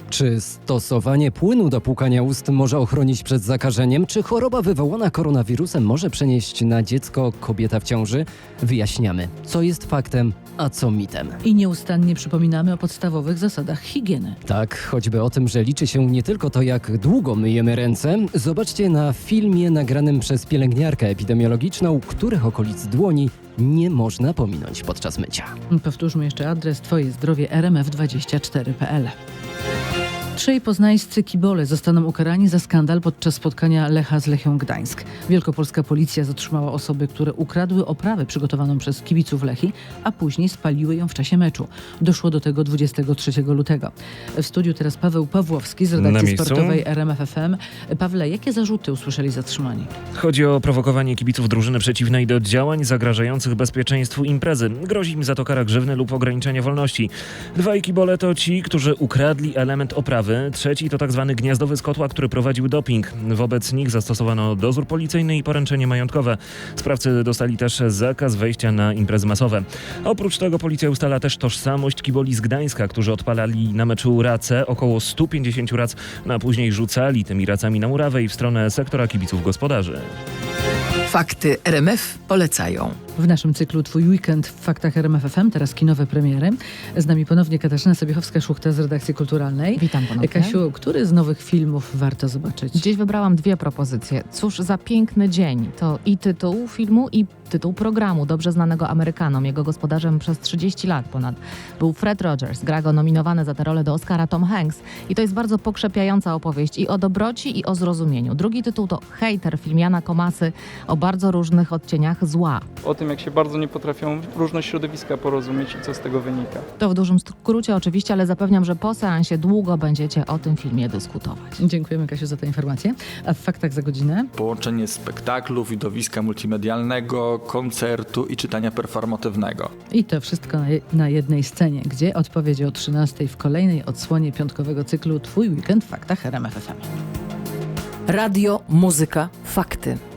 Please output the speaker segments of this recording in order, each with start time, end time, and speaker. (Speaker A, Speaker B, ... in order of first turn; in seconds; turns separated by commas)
Speaker A: 0.1-11.4, Speaker B: 11.4-14.4, Speaker A: 14.4-25.5, Speaker B: 25.7-29.1, Speaker B: 30.3-49.9, Speaker C: 46.0-46.8, Speaker C: 50.1-80.1, Speaker D: 81.1-83.0, Speaker B: 83.2-92.9, Speaker E: 89.8-90.5, Speaker E: 92.8-112.6, Speaker F: 112.8-116.7, Speaker E: 116.8-121.6, Speaker B: 121.6-124.3, Speaker G: 124.3-129.7, Speaker B: 129.9-136.9, Speaker D: 138.6-138.9, Speaker D: 139.4-139.7